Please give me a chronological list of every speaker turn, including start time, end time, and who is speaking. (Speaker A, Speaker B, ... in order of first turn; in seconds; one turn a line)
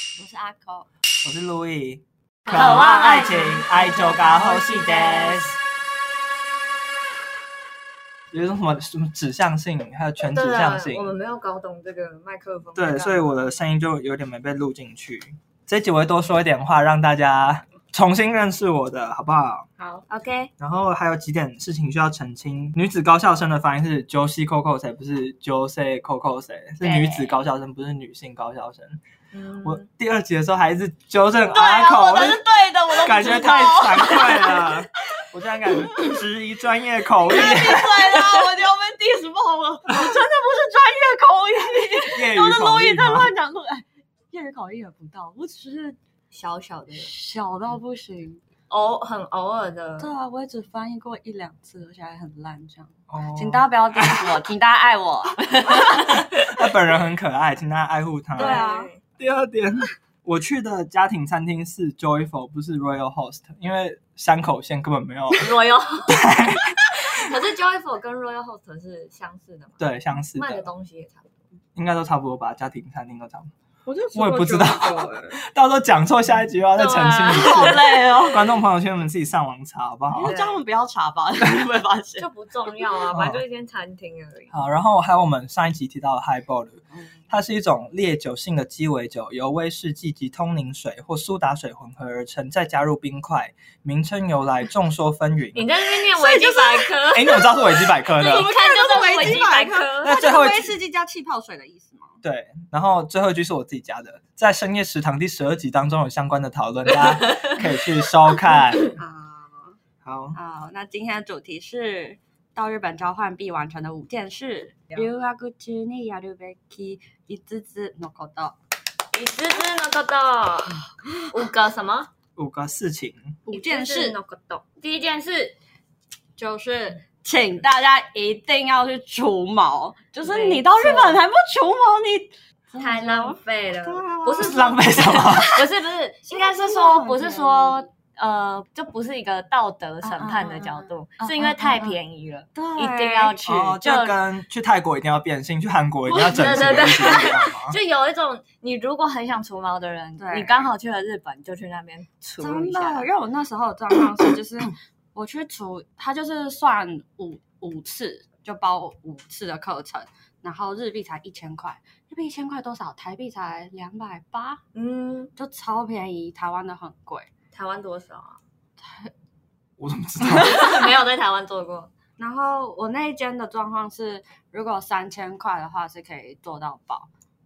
Speaker A: 0.2-0.9
Speaker B: 1.2-5.6
Speaker C: 2.5-5.3
Speaker A: 2.5-5.3
Speaker B: 8.3-11.1
Speaker A: 10.3-13.4
Speaker B: 12.8-19.7
Speaker A: 19.8-20.5
Speaker B: 20.6-29.0
Speaker A: 26.8-27.4
Speaker A: 29.3-29.9
Speaker B: 29.6-38.1
Speaker C: 31.4-35.2
Speaker C: 37.2-46.0
Speaker B: 39.9-40.1
Speaker B: 42.1-43.3
Speaker A: 46.3-47.1
Speaker C: 46.9-48.4
Speaker A: 48.7-50.1
Speaker C: 50.0-56.3
Speaker B: 53.1-54.3
Speaker B: 56.0-58.6
Speaker C: 58.4-58.9
Speaker A: 58.4-59.0
Speaker B: 59.2-65.6
Speaker A: 65.3-71.4
Speaker B: 66.1-66.8
Speaker B: 69.8-70.7
Speaker B: 71.8-73.5
Speaker C: 73.9-75.4
Speaker B: 74.1-80.4
Speaker A: 76.7-78.2
Speaker C: 77.3-78.5
Speaker C: 80.1-82.3
Speaker A: 80.2-80.6
Speaker A: 82.2-84.6
Speaker B: 83.1-83.4
Speaker B: 84.5-95.8
Speaker A: 95.5-100.2
Speaker C: 96.1-97.0
Speaker B: 97.1-98.5
Speaker C: 98.0-102.2
Speaker B: 100.0-100.8
Speaker B: 102.2-108.9
Speaker A: 107.1-107.6
Speaker C: 109.0-109.8
Speaker B: 110.0-110.4
Speaker C: 110.3-118.6
Speaker A: 119.1-122.1
Speaker B: 122.4-123.4
Speaker C: 123.5-124.2
Speaker A: 123.5-125.5
Speaker C: 126.4-135.5
Speaker A: 130.2-131.2
Speaker A: 132.8-144.2
Speaker B: 134.4-135.7
Speaker C: 136.3-137.8
Speaker C: 140.0-142.0
Speaker C: 142.6-143.4
Speaker B: 143.4-147.8
Speaker A: 146.1-153.1
Speaker C: 150.2-150.6
Speaker C: 152.4-164.6
Speaker A: 164.7-165.3
Speaker C: 165.4-167.3
Speaker A: 167.5-168.4
Speaker C: 168.8-169.1
Speaker B: 169.8-170.7
Speaker A: 170.3-171.9
Speaker C: 172.2-177.1